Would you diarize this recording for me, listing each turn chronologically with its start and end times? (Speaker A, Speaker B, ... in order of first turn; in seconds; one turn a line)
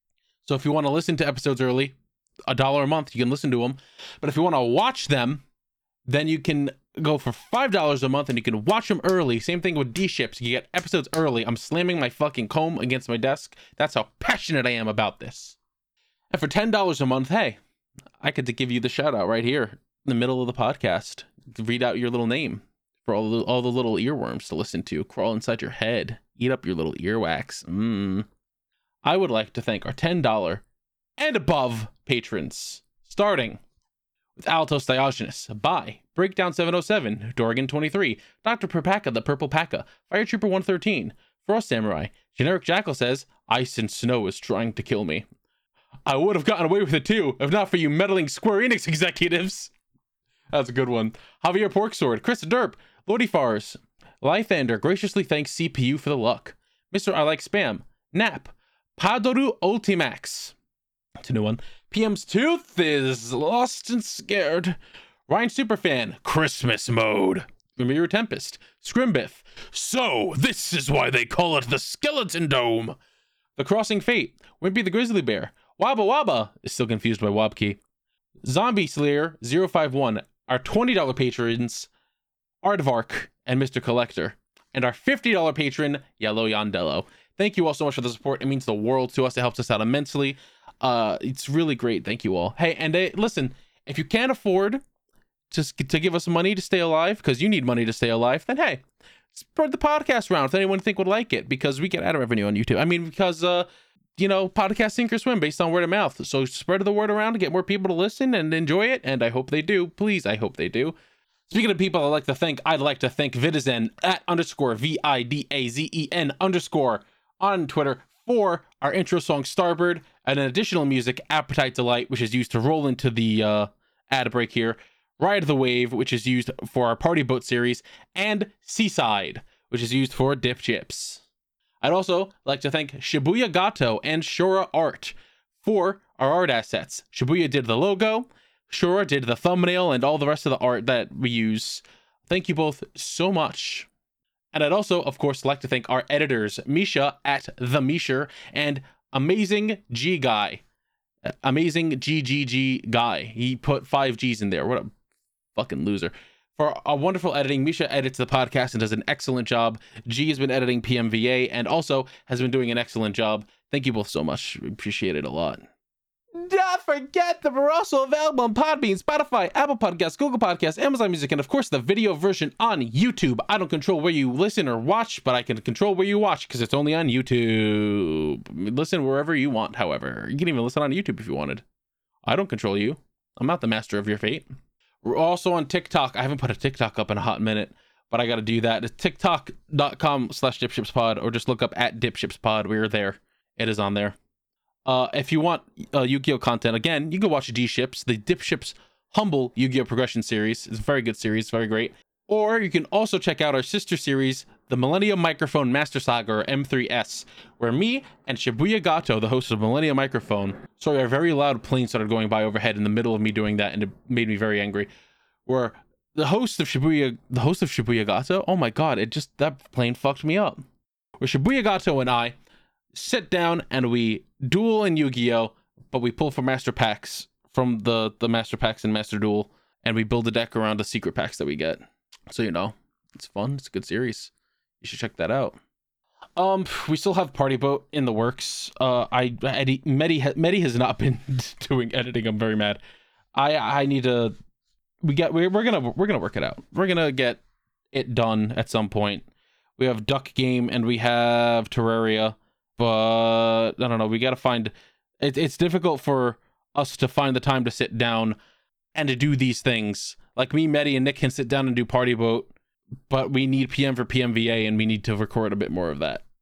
Speaker A: 0.4-1.9
Speaker A: 2.5-5.4
Speaker A: 6.0-15.6
Speaker A: 16.3-17.6
Speaker A: 18.2-28.3
Speaker A: 29.0-30.6
Speaker A: 31.2-33.6
Speaker A: 34.4-45.2
Speaker A: 46.0-49.7
Speaker A: 50.5-60.5
Speaker A: 61.2-64.8
Speaker A: 65.3-73.0
Speaker A: 73.6-77.8
Speaker A: 78.4-81.9
Speaker A: 82.6-94.8
Speaker A: 95.5-110.9
Speaker A: 111.5-131.2
Speaker A: 131.8-143.9
Speaker A: 144.5-150.6
Speaker A: 151.2-154.9
Speaker A: 155.6-165.7
Speaker A: 166.3-181.6
Speaker A: 182.2-184.4
Speaker A: 185.0-194.2
Speaker A: 194.8-214.9
Speaker A: 215.4-220.6
Speaker A: 221.2-222.3
Speaker A: 222.9-235.6
Speaker A: 236.3-242.8
Speaker A: 243.3-244.3
Speaker A: 245.0-247.4
Speaker A: 247.9-249.2
Speaker A: 249.8-258.4
Speaker A: 258.9-262.5
Speaker A: 263.1-266.2